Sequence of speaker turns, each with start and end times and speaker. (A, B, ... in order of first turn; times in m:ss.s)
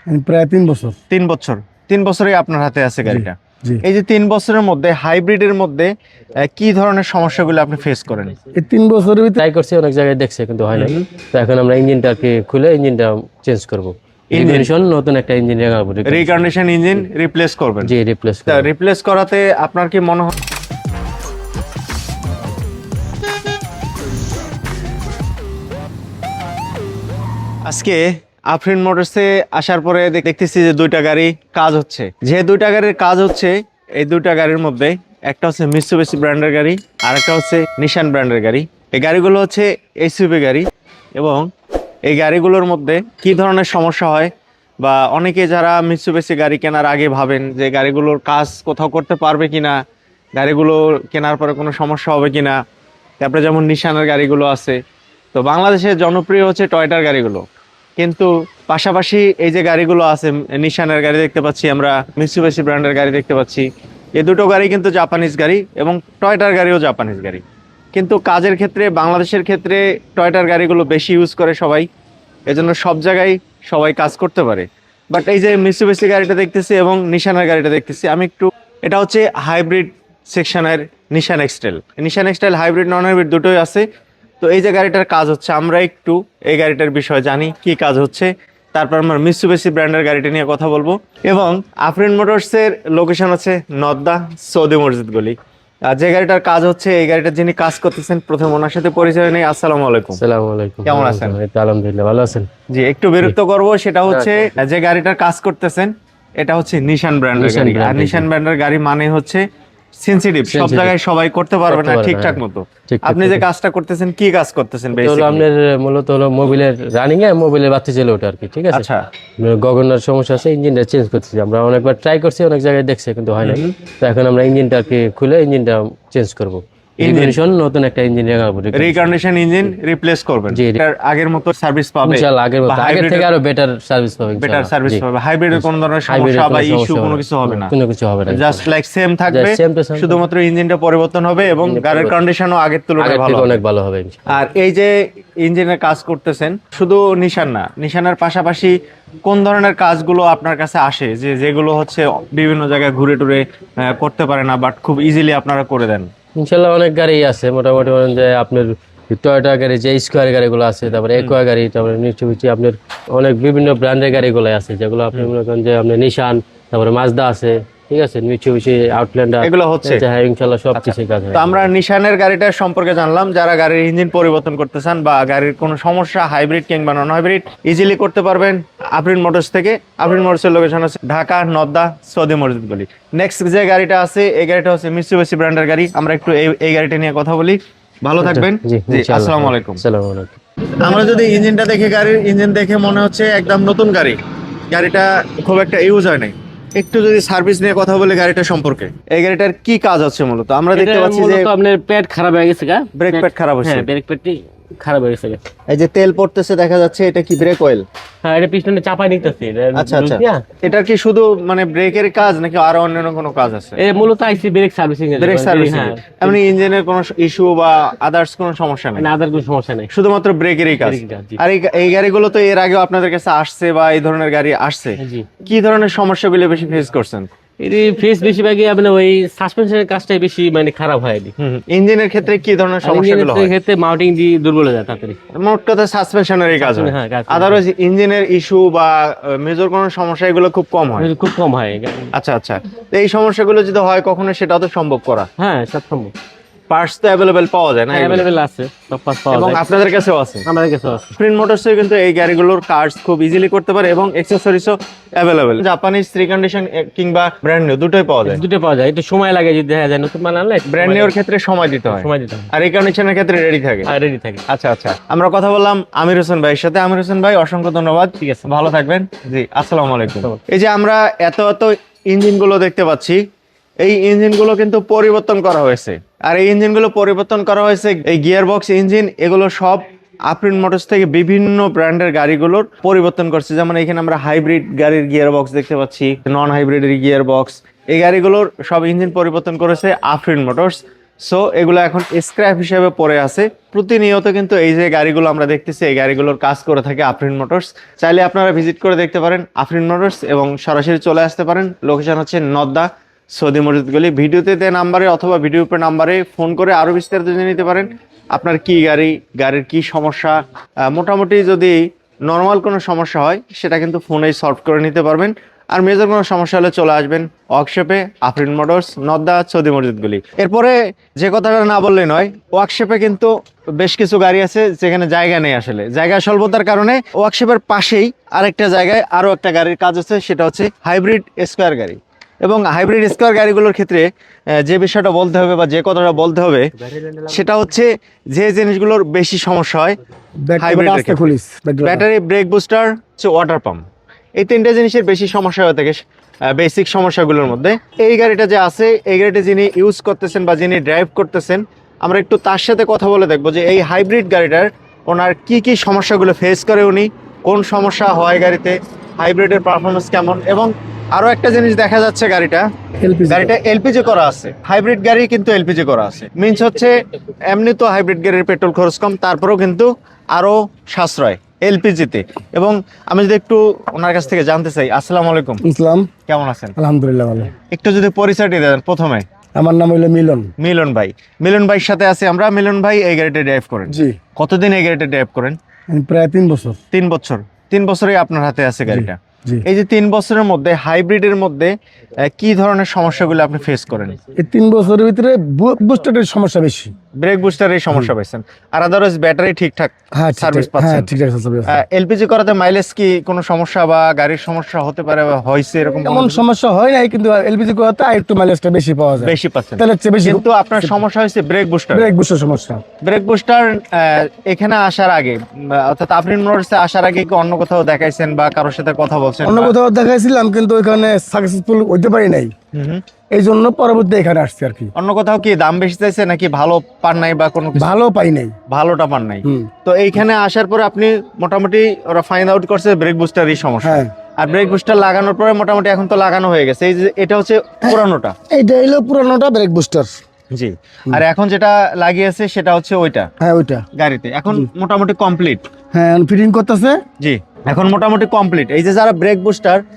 0:00.1-0:01.0 A
0:01.1-0:05.9 B
0:03.1-0:03.8 A
0:06.5-0:08.3 B
0:08.5-0:09.4 A
0:09.4-0:16.5 C
0:10.7-0:11.1 B
0:14.3-0:14.7 B
0:16.1-0:17.9 B
0:17.8-0:18.7 C
0:18.5-0:20.3 B
0:27.7-0:40.6 B
0:41.2-0:41.4 B
0:42.1-0:44.3 B
0:44.8-0:49.8 B
0:50.4-0:52.6 B
0:53.2-0:54.8 B
0:55.4-0:57.4 B
0:58.0-1:03.7 B
1:04.2-1:07.4 B
1:08.0-1:11.9 B
1:12.5-1:23.8 B
1:24.4-1:35.4 B
1:35.9-1:40.2 B
1:40.2-1:42.5 C
1:40.9-1:41.4 B
1:42.7-1:49.4 B
1:44.1-1:44.5 C
1:47.4-1:48.3 C
1:50.0-1:55.5 B
1:50.5-1:50.9 C
1:51.7-1:53.4 C
1:55.0-1:58.9 C
1:58.7-1:59.0 B
1:59.4-2:09.2 C
2:03.4-2:03.7 B
2:07.0-2:07.4 B
2:08.7-2:13.3 B
2:10.5-2:10.8 C
2:12.0-2:15.0 C
2:14.4-2:17.7 B
2:15.5-2:18.7 C
2:18.3-2:23.6 B
2:19.3-2:20.2 C
2:21.6-2:22.2 C
2:23.0-2:24.2 C
2:24.3-2:24.9 B
2:25.4-2:28.7 B
2:29.2-2:36.1 B
2:36.4-2:51.7 C
2:49.4-2:50.0 B
2:50.8-3:09.8 B
3:08.2-3:10.4 C
3:10.8-3:14.2 B
3:14.7-3:21.5 B
3:20.7-3:25.4 C
3:23.0-3:23.9 B
3:25.7-3:27.8 B
3:28.2-3:30.4 C
3:29.7-3:33.8 B
3:33.8-3:36.5 C
3:35.2-3:39.1 B
3:39.0-3:39.9 C
3:39.9-3:47.3 B
3:40.8-3:41.4 C
3:47.6-3:51.3 C
3:51.4-3:53.5 B
3:52.8-3:55.2 C
3:55.4-4:01.1 B
3:56.6-3:57.6 C
4:01.0-4:02.1 C
4:02.1-4:05.3 B
4:05.4-4:06.1 C
4:06.7-4:08.3 B
4:07.9-4:09.6 C
4:09.3-4:10.5 B
4:10.5-4:11.0 C
4:11.2-4:18.4 B
4:18.3-4:21.1 C
4:20.7-4:23.9 B
4:21.9-4:22.5 C
4:23.9-4:24.4 C
4:24.5-4:33.2 B
4:33.8-5:10.4 B
5:10.9-5:34.0 B
5:34.6-5:36.7 B
5:37.0-5:37.3 C
5:37.3-5:40.0 B
5:40.5-5:42.0 A
5:40.6-5:43.8 B
5:44.4-5:46.0 B
5:46.5-6:02.6 B
6:03.0-6:03.5 A
6:03.3-6:06.9 B
6:07.5-6:15.6 B
6:15.6-6:16.1 A
6:16.3-6:16.8 B
6:16.8-6:17.5 A
6:17.7-6:19.2 B
6:19.6-6:20.5 A
6:20.6-6:25.6 B
6:23.9-6:24.2 A
6:25.9-6:26.8 A
6:26.9-6:31.7 B
6:28.9-6:29.6 A
6:32.2-6:34.2 B
6:34.4-6:36.9 A
6:37.2-6:41.1 B
6:40.2-6:41.8 A
6:41.7-6:46.4 B
6:46.0-6:51.0 A
6:49.2-6:52.1 B
6:51.9-6:52.8 A
6:53.0-6:59.8 B
6:59.4-7:02.5 A
7:02.7-7:03.0 B
7:03.3-7:04.9 A
7:05.0-7:08.0 B
7:07.8-7:08.6 A
7:08.7-7:18.4 B
7:09.4-7:09.7 A
7:13.8-7:14.1 A
7:18.5-7:20.2 A
7:20.5-7:23.3 B
7:23.4-7:23.8 A
7:24.0-7:25.6 B
7:25.9-7:27.0 A
7:27.2-7:29.8 B